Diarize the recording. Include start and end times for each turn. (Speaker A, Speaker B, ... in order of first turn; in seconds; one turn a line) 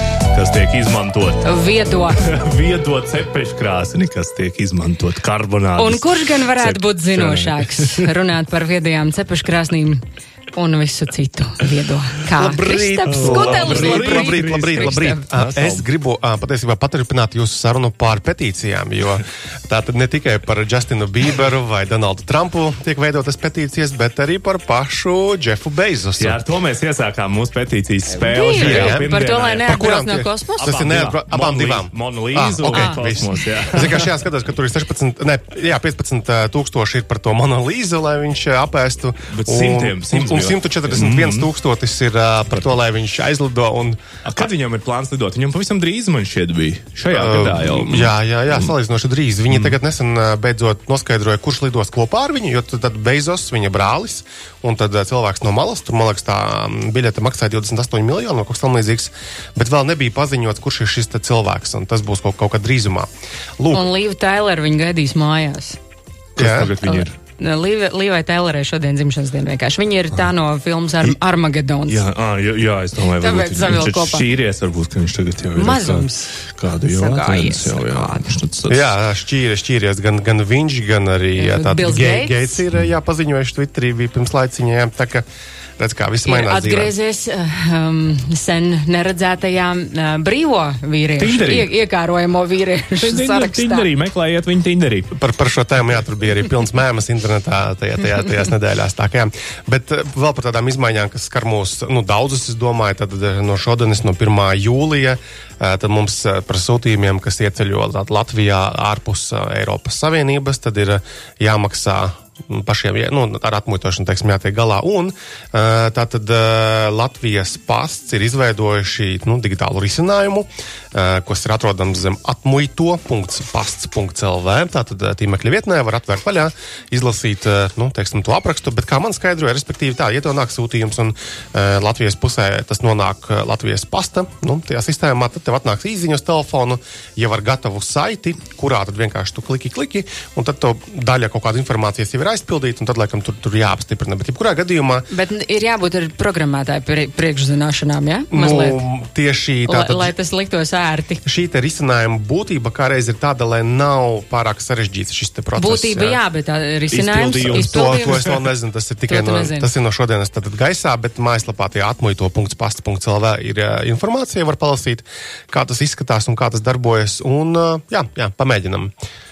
Speaker A: 0.3-1.5
Speaker B: 1.4-2.2
Speaker A: 2.2-8.1
Speaker B: 5.8-15.3
Speaker C: 12.3-26.4
Speaker A: 13.0-15.8
Speaker A: 26.2-29.8
Speaker B: 28.1-30.7
Speaker C: 28.6-29.1
Speaker C: 29.6-44.0
Speaker A: 30.6-34.1
Speaker B: 32.7-33.0
Speaker A: 39.3-41.5
Speaker A: 44.2-48.7
Speaker C: 47.1-63.9
Speaker A: 49.5-49.8
Speaker B: 63.7-65.8
Speaker A: 66.3-67.1
Speaker C: 66.4-66.7
Speaker B: 66.8-72.0
Speaker A: 71.9-78.9
Speaker B: 73.2-74.3
Speaker B: 75.5-78.3
Speaker C: 78.7-85.2
Speaker B: 81.4-82.6
Speaker C: 85.8-86.9
Speaker B: 86.2-93.9
Speaker A: 91.2-91.7
Speaker A: 93.0-95.1
Speaker C: 95.2-145.1
Speaker B: 145.1-148.8
Speaker C: 148.3-150.1
Speaker B: 149.7-151.2
Speaker C: 151.2-156.2
Speaker B: 155.6-158.2
Speaker A: 156.9-158.3
Speaker C: 157.5-168.9
Speaker B: 159.1-159.7